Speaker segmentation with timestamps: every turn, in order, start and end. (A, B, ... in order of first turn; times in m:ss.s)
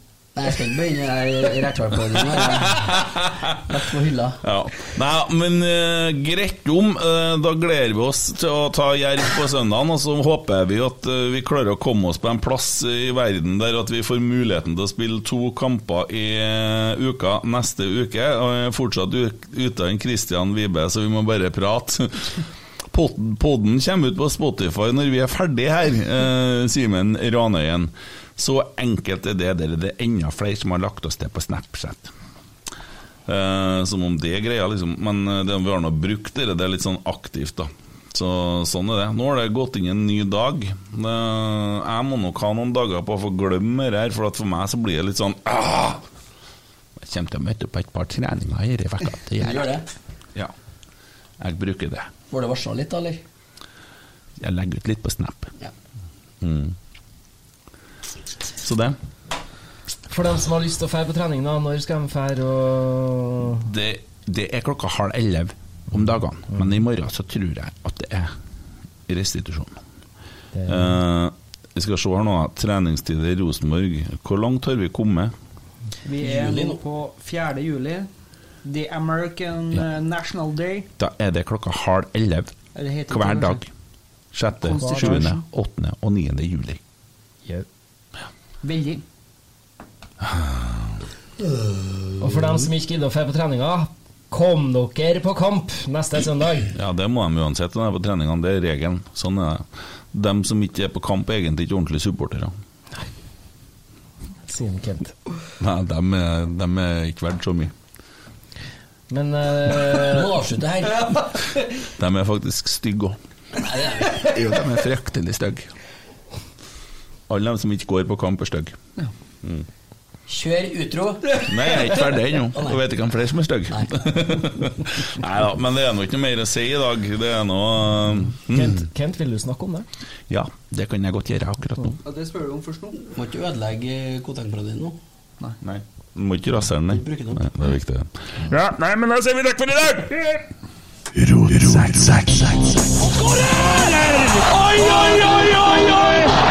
0:00.4-0:03.0 A
0:02.5-0:03.5 B
0:03.7-0:04.4 A
0:04.4-0:32.1 B
0:33.3-0:46.0 B
0:47.0-0:49.7 B
0:49.4-0:49.9 A
0:51.4-0:52.1 B
0:52.3-0:53.2 A
0:54.4-0:55.5 B
0:56.4-0:56.8 B
0:58.6-0:59.0 B
1:00.1-1:03.6 C
1:03.6-1:08.3 B
1:09.1-1:09.8 B
1:10.5-1:10.9 C
1:10.7-1:15.3 B
1:16.0-1:18.1 D
1:16.2-1:16.8 A
1:18.6-1:20.9 D
1:21.0-1:22.5 B
1:22.8-1:23.6 D
1:23.1-1:23.7 B
1:24.3-1:26.8 B
1:24.6-1:25.4 D
1:24.8-1:25.3 C
1:28.6-1:29.0 D
1:30.2-1:30.9 B
1:31.5-1:31.7 A
1:32.2-1:36.7 C
1:36.7-1:42.5 B
1:44.5-1:45.2 C
1:45.6-1:47.7 B
1:49.1-1:50.4 C
1:49.9-1:51.2 A
1:52.0-1:53.2 B
1:53.6-1:54.3 A
1:54.1-1:55.7 B
1:57.3-1:58.8 B
2:00.3-2:01.5 A
2:01.4-2:08.8 B
2:02.5-2:02.8 A
2:03.7-2:04.1 A
2:08.5-2:09.9 C
2:10.3-2:12.0 B
2:12.0-2:13.0 D
2:13.0-2:15.0 A
2:15.6-2:19.8 B
2:16.9-2:17.4 A
2:18.6-2:20.4 E
2:21.2-2:22.7 B
2:23.8-2:24.5 E
2:24.7-2:26.2 D